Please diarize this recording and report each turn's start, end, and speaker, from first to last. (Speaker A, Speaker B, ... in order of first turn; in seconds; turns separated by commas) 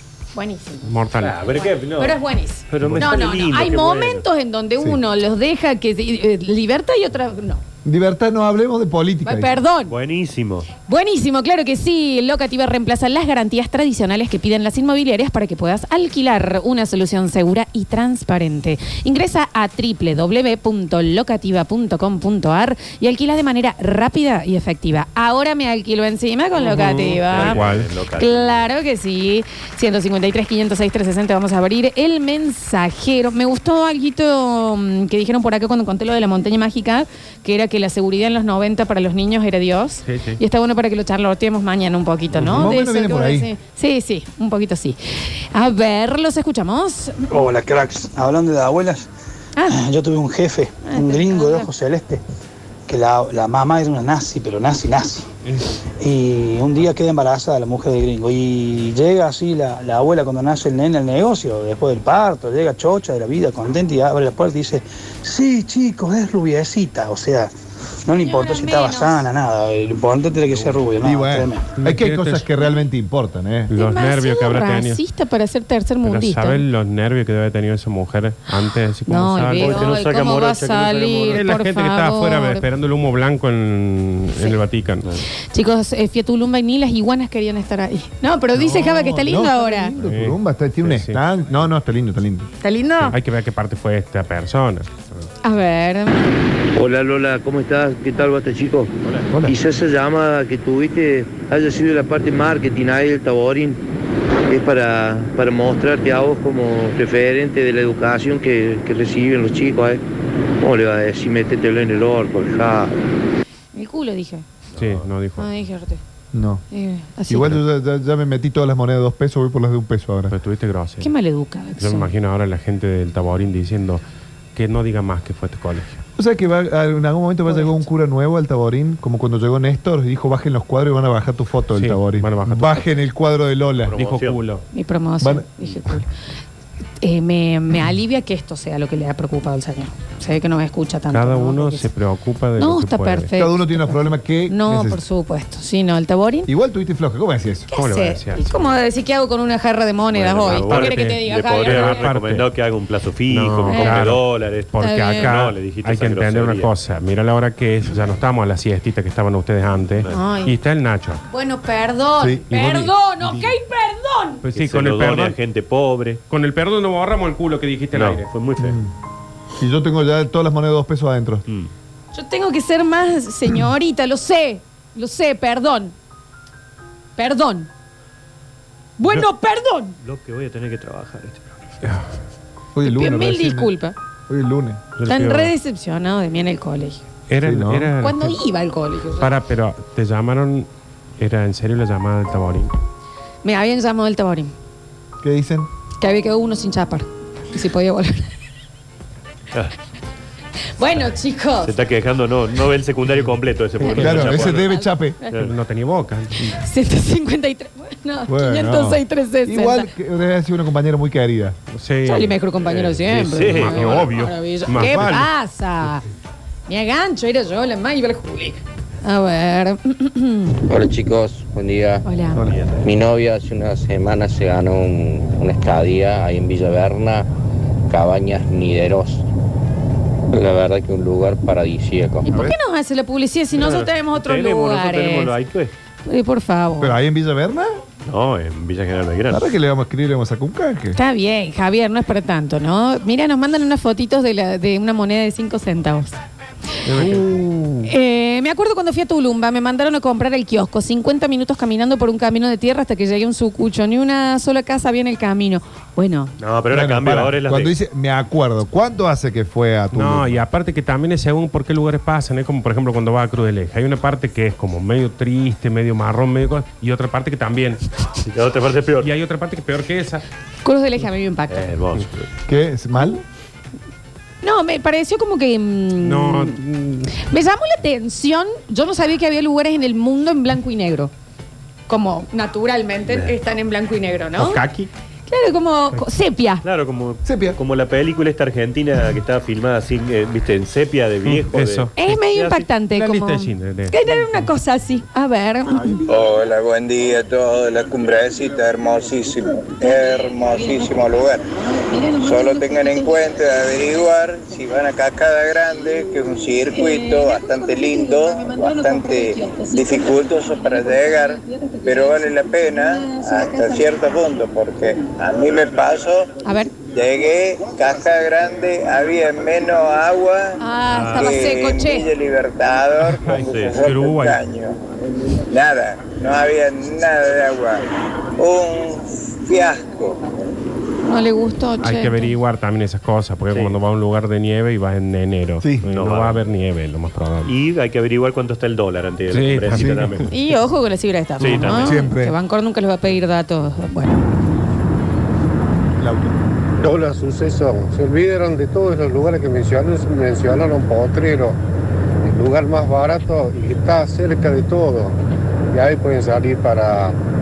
Speaker A: 0.3-0.8, Speaker B: 0.8-1.4, Speaker C: 1.1-4.2, Speaker A: 1.5-7.6, Speaker B: 2.8-3.1, Speaker D: 7.8-9.6, Speaker A: 9.2-9.9, Speaker C: 9.9-10.7, Speaker A: 10.9-47.4, Speaker B: 26.7-27.9, Speaker C: 27.3-28.7, Speaker B: 40.0-40.4, Speaker D: 42.4-43.5, Speaker E: 47.3-49.0, Speaker A: 49.5-49.8, Speaker E: 49.7-52.2, Speaker A: 50.8-51.7, Speaker E: 52.9-55.3, Speaker E: 56.0-67.5, Speaker E: 68.0-71.7, Speaker A: 68.2-69.3, Speaker D: 71.0-73.7, Speaker B: 71.8-72.5, Speaker B: 73.7-75.0, Speaker A: 73.7-76.6, Speaker B: 76.0-79.8, Speaker A: 79.1-82.6, Speaker C: 79.6-81.4, Speaker B: 81.3-85.0, Speaker A: 85.5-89.9, Speaker D: 88.6-92.5, Speaker B: 90.0-91.2, Speaker A: 92.6-93.2, Speaker B: 93.0-95.2, Speaker A: 95.4-96.2, Speaker F: 96.7-98.9, Speaker F: 99.5-103.8, Speaker F: 104.5-110.0, Speaker F: 110.6-113.0, Speaker A: 113.7-114.4, Speaker C: 114.7-115.0, Speaker B: 114.8-115.5, Speaker A: 115.4-116.0, Speaker D: 116.3-116.6, Speaker A: 116.7-117.6, Speaker D: 117.3-120.3, Speaker B: 120.3-121.1, Speaker A: 121.0-122.1, Speaker B: 121.8-124.0, Speaker B: 124.5-126.0, Speaker D: 126.2-133.9, Speaker A: 127.5-127.8, Speaker B: 131.7-132.9, Speaker C: 133.9-134.4, Speaker B: 133.9-134.6, Speaker A: 134.7-136.1, Speaker D: 135.2-135.5, Speaker A: 137.0-141.9, Speaker B: 141.1-143.3, Speaker A: 142.6-146.5, Speaker D: 143.3-145.0, Speaker D: 146.5-147.7, Speaker A: 147.7-152.1, Speaker B: 147.8-148.8, Speaker C: 150.1-156.7, Speaker B: 150.4-152.5, Speaker B: 153.3-161.2, Speaker A: 153.6-154.0, Speaker A: 154.8-155.3, Speaker A: 160.1-160.6, Speaker A: 161.3-164.4, Speaker B: 162.5-162.9, Speaker B: 164.4-165.4, Speaker C: 164.5-166.2, Speaker B: 166.3-168.3, Speaker C: 167.9-168.8, Speaker D: 168.6-168.9, Speaker D: 169.6-171.4, Speaker A: 172.1-175.9, Speaker A: 177.2-177.7, Speaker A: 179.0-180.0, Speaker C: 180.0-181.8, Speaker B: 181.8-182.1, Speaker D: 182.7-183.7, Speaker A: 182.8-183.9, Speaker D: 184.3-184.8, Speaker B: 185.0-185.5, Speaker A: 185.1-187.0, Speaker B: 187.3-188.4, Speaker D: 187.4-187.9, Speaker A: 188.0-189.3, Speaker B: 189.2-190.7, Speaker B: 191.2-192.7, Speaker A: 193.4-194.5, Speaker D: 195.2-195.7, Speaker A: 196.0-198.3, Speaker A: 200.8-201.8, Speaker C: 201.6-204.7, Speaker B: 203.8-204.7, Speaker A: 203.8-205.4, Speaker D: 204.0-205.2, Speaker B: 205.3-206.3, Speaker A: 206.4-209.9, Speaker D: 208.3-211.6, Speaker B: 211.7-212.3, Speaker A: 212.0-216.0, Speaker C: 212.6-214.1, Speaker B: 213.5-215.3, Speaker D: 213.7-213.9, Speaker D: 214.8-215.2, Speaker A: 216.7-220.6, Speaker G: 220.7-222.0, Speaker A: 222.0-222.5, Speaker C: 222.4-222.9, Speaker G: 222.8-227.3, Speaker G: 227.9-229.2, Speaker G: 230.3-232.2, Speaker A: 232.3-235.3, Speaker C: 233.5-235.7, Speaker A: 236.0-236.9, Speaker D: 236.8-237.7, Speaker C: 238.1-239.4, Speaker D: 239.3-241.0, Speaker A: 240.9-246.1, Speaker B: 246.9-247.3, Speaker D: 247.0-247.9, Speaker A: 247.8-256.3, Speaker C: 256.4-257.7, Speaker D: 256.7-260.4, Speaker B: 259.9-267.8, Speaker C: 268.2-269.1, Speaker B: 269.0-270.2, Speaker A: 270.6-271.7, Speaker C: 271.5-272.3, Speaker D: 272.5-273.2, Speaker A: 272.9-273.2, Speaker A: 274.4-281.1, Speaker B: 276.0-277.0, Speaker A: 281.9-284.6, Speaker C: 283.1-283.3, Speaker B: 284.4-284.9, Speaker A: 285.3-286.6, Speaker C: 286.6-292.7, Speaker D: 287.2-287.6, Speaker B: 291.2-291.9, Speaker A: 292.0-296.0, Speaker B: 292.9-294.3, Speaker H: 296.1-301.4, Speaker A: 299.8-301.1, Speaker A: 301.8-303.2, Speaker H: 302.2-316.3, Speaker A: 306.7-312.3, Speaker A: 312.8-313.9, Speaker A: 316.4-316.7, Speaker H: 316.9-320.6, Speaker A: 320.6-322.1, Speaker C: 320.9-321.4, Speaker H: 321.1-324.7, Speaker B: 323.2-324.4, Speaker C: 323.4-323.8, Speaker H: 325.5-327.8, Speaker H: 328.4-330.2, Speaker A: 331.1-332.3, Speaker B: 331.8-337.5, Speaker C: 333.5-333.8, Speaker C: 335.9-336.4, Speaker C: 337.4-340.2, Speaker B: 339.3-340.3, Speaker D: 339.8-340.1, Speaker A: 340.3-344.2, Speaker C: 341.4-342.0, Speaker D: 341.7-342.4, Speaker D: 346.0-346.4, Speaker I: 346.8-351.6, Speaker I: 352.2-355.1, Speaker I: 355.7-357.1